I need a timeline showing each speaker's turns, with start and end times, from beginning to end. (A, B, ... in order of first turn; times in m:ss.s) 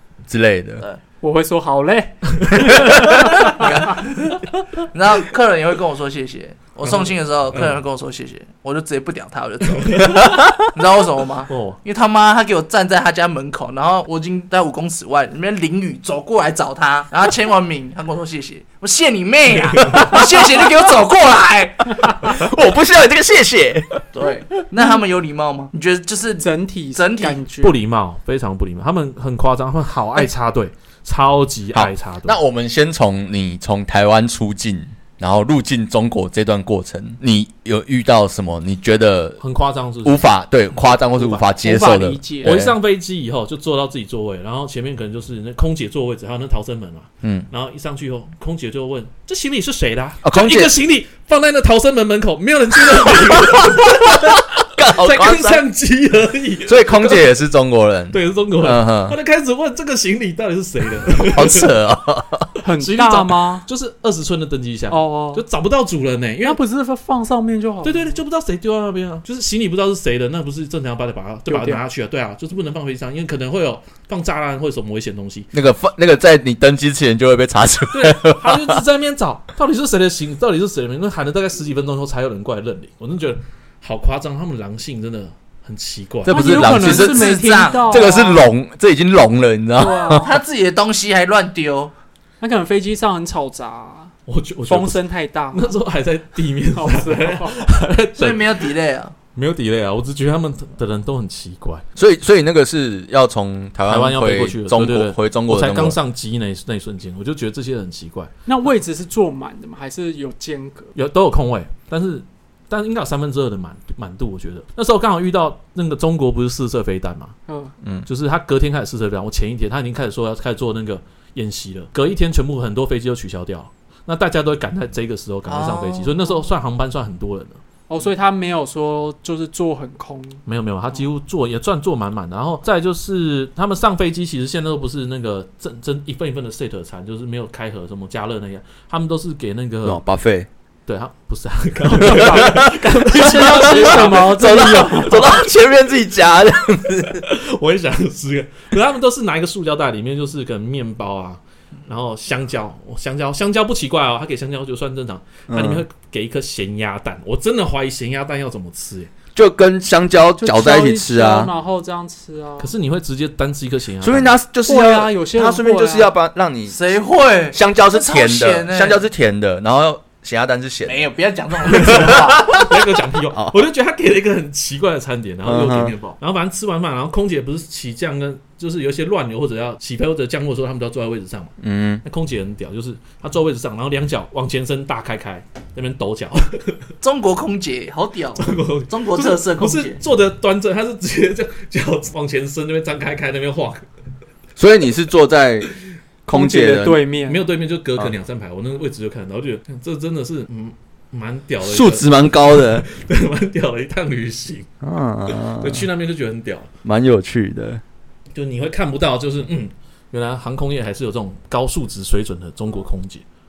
0:00.3-0:00.8 A
0:01.2-0:03.8 B
0:02.6-0:04.0 A
0:04.9-0:22.1 C
0:06.9-0:07.8 D
0:09.8-0:10.1 D
0:10.2-0:10.5 A
0:11.5-0:11.8 D
0:22.1-0:23.8 A
0:24.1-0:27.4 C
0:26.4-0:27.8 B
0:27.6-0:32.4 D
0:31.7-0:39.4 A
0:39.4-0:40.2 D
0:40.0-0:42.7 A
0:41.1-0:41.4 D
0:41.6-0:42.6 B
0:42.4-0:57.2 D
0:50.2-0:50.7 A
0:53.1-0:55.6 A
0:56.6-0:59.2 A
0:58.1-1:01.7 D
1:01.2-1:02.5 A
1:02.6-1:03.6 B
1:02.8-1:06.6 D
1:04.9-1:05.4 B
1:06.4-1:08.2 B
1:07.8-1:15.5 D
1:11.5-1:11.8 B
1:15.5-1:18.8 A
1:17.9-1:26.7 D
1:26.2-1:30.2 A
1:26.3-1:28.4 B
1:26.6-1:28.4 C
1:29.8-1:30.3 B
1:30.1-1:31.9 C
1:32.4-1:34.1 B
1:34.3-1:38.7 D
1:34.7-1:35.8 B
1:36.7-1:37.7 B
1:38.2-1:39.1 C
1:39.3-1:41.8 D
1:42.0-1:46.0 A
1:43.9-1:48.3 D
1:48.4-1:50.9 B
1:50.9-1:57.4 D
1:57.5-1:57.7 B
1:58.0-2:07.6 D
2:05.5-2:06.2 C
2:07.9-2:10.4 B
2:10.4-2:20.0 D
2:19.8-2:20.5 A
2:20.9-2:25.3 D
2:21.9-2:25.3 B
2:22.0-2:27.2 A
2:27.1-2:39.1 D
2:35.5-2:35.8 A
2:39.3-2:41.5 A
2:40.4-2:42.7 B
2:42.6-2:44.3 D
2:44.0-2:46.8 A
2:44.6-2:46.1 B
2:46.7-2:49.0 C
2:47.5-2:51.0 A
2:50.8-2:52.6 C
2:51.7-3:01.5 D
2:55.4-2:55.9 A
3:01.6-3:02.0 A
3:02.0-3:06.8 D
3:07.0-3:10.0 C
3:08.4-3:13.8 D
3:14.6-3:15.7 A
3:16.2-3:17.0 A
3:16.3-3:17.4 B
3:17.2-3:24.7 D
3:21.6-3:22.8 A
3:24.8-3:25.8 A
3:25.5-3:26.7 D
3:26.8-3:27.8 A
3:28.3-3:33.2 D